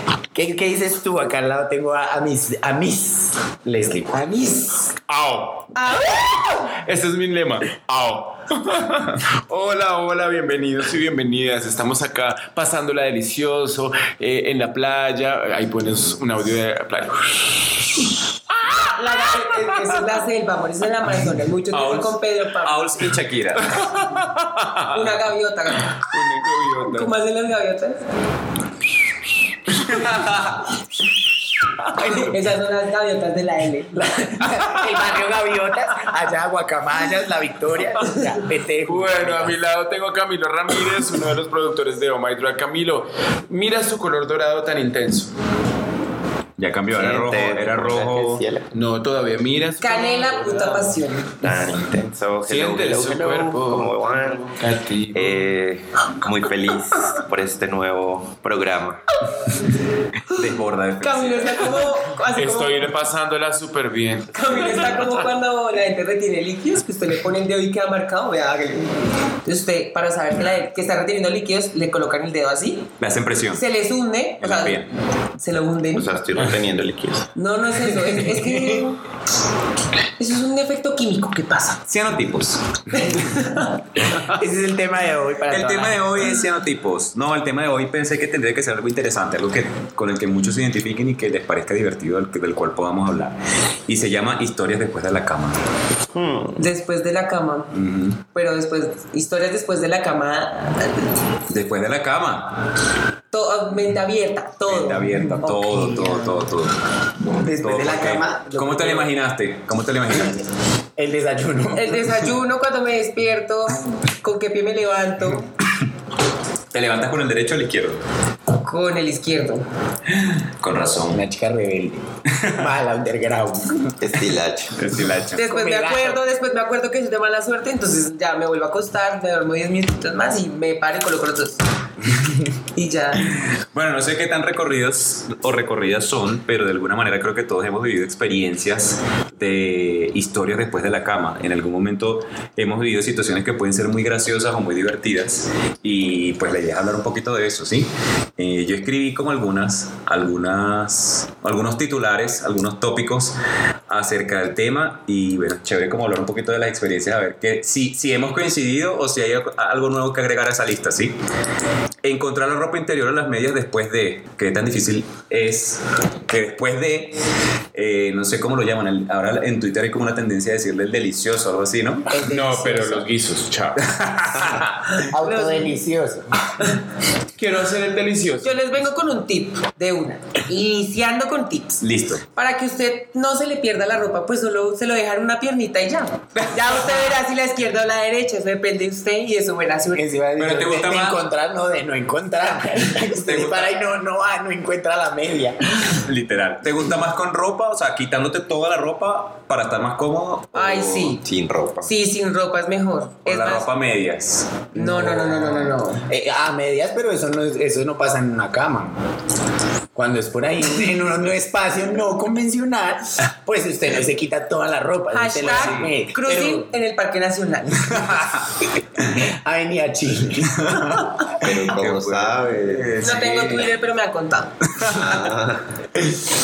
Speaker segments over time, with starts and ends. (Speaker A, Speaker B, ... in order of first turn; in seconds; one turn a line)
Speaker A: 0.3-4.3
Speaker B: 4.1-4.9
Speaker C: 5.0-5.7
Speaker B: 5.8-6.4
Speaker C: 6.4-20.0
Speaker B: 18.8-22.9
Speaker C: 21.7-22.2
Speaker D: 22.6-24.0
Speaker C: 23.6-25.2
Speaker B: 24.9-26.0
Speaker D: 26.1-27.1
Speaker C: 26.1-26.7
Speaker B: 26.8-28.0
Speaker C: 29.9-30.3
Speaker D: 30.1-30.6
Speaker B: 32.0-34.0
Speaker A: 33.9-39.6
Speaker C: 38.9-45.3
Speaker D: 46.6-48.4
Speaker E: 46.9-48.7
Speaker C: 48.7-51.0
Speaker B: 49.8-51.3
Speaker E: 51.4-54.5
Speaker C: 52.5-55.5
Speaker E: 55.1-59.0
Speaker D: 60.3-61.8
Speaker B: 61.0-62.9
Speaker C: 62.4-65.2
Speaker B: 64.3-72.9
Speaker D: 73.0-73.6
Speaker B: 73.5-74.8
Speaker D: 74.4-74.9
Speaker B: 75.4-76.1
Speaker E: 75.9-77.3
Speaker B: 77.4-79.0
Speaker B: 80.2-81.8
Speaker D: 81.9-83.2
Speaker B: 82.9-83.8
Speaker A: 84.0-86.3
Speaker D: 85.5-95.6
Speaker E: 96.1-96.7
Speaker B: 96.6-97.7
Speaker D: 97.7-98.2
Speaker B: 98.3-101.1
Speaker D: 101.5-102.6
Speaker B: 103.3-105.6
Speaker D: 104.7-106.8
Speaker A: 105.1-106.5
Speaker A: 107.3-109.1
Speaker D: 107.6-110.4
Speaker A: 111.0-112.1
Speaker B: 111.7-115.5
Speaker D: 116.7-118.0
Speaker B: 118.6-119.7
Speaker D: 120.1-121.2
Speaker A: 121.0-124.1
Speaker D: 122.3-122.7
Speaker E: 124.0-124.8
Speaker D: 124.7-125.4
Speaker B: 125.4-131.6
Speaker A: 125.4-126.2
Speaker B: 132.8-133.3
Speaker D: 133.3-153.4
Speaker D: 153.9-161.2
Speaker D: 162.0-167.2
Speaker D: 167.7-172.1
Speaker B: 172.1-173.0
Speaker C: 172.2-174.2
Speaker D: 174.0-174.7
Speaker B: 174.9-175.8
Speaker A: 175.0-176.5
Speaker C: 177.4-178.6
Speaker B: 178.4-181.8
Speaker D: 181.8-182.2
Speaker B: 182.3-190.1
Speaker D: 186.4-187.0
Speaker A: 189.9-195.6
Speaker D: 190.4-191.2
Speaker D: 193.1-193.7
Speaker D: 195.9-201.2
Speaker B: 200.5-201.2
Speaker E: 201.2-201.9
Speaker B: 201.8-203.7
Speaker D: 203.2-204.7
Speaker B: 204.7-206.1
Speaker A: 204.7-208.9
Speaker A: 209.9-216.7
Speaker B: 215.1-218.1
Speaker D: 215.4-215.9
Speaker D: 217.9-218.4
Speaker A: 219.0-221.1
Speaker D: 220.6-223.7
Speaker E: 221.3-222.9
Speaker B: 223.0-224.5
Speaker D: 224.7-225.2
Speaker E: 224.8-225.7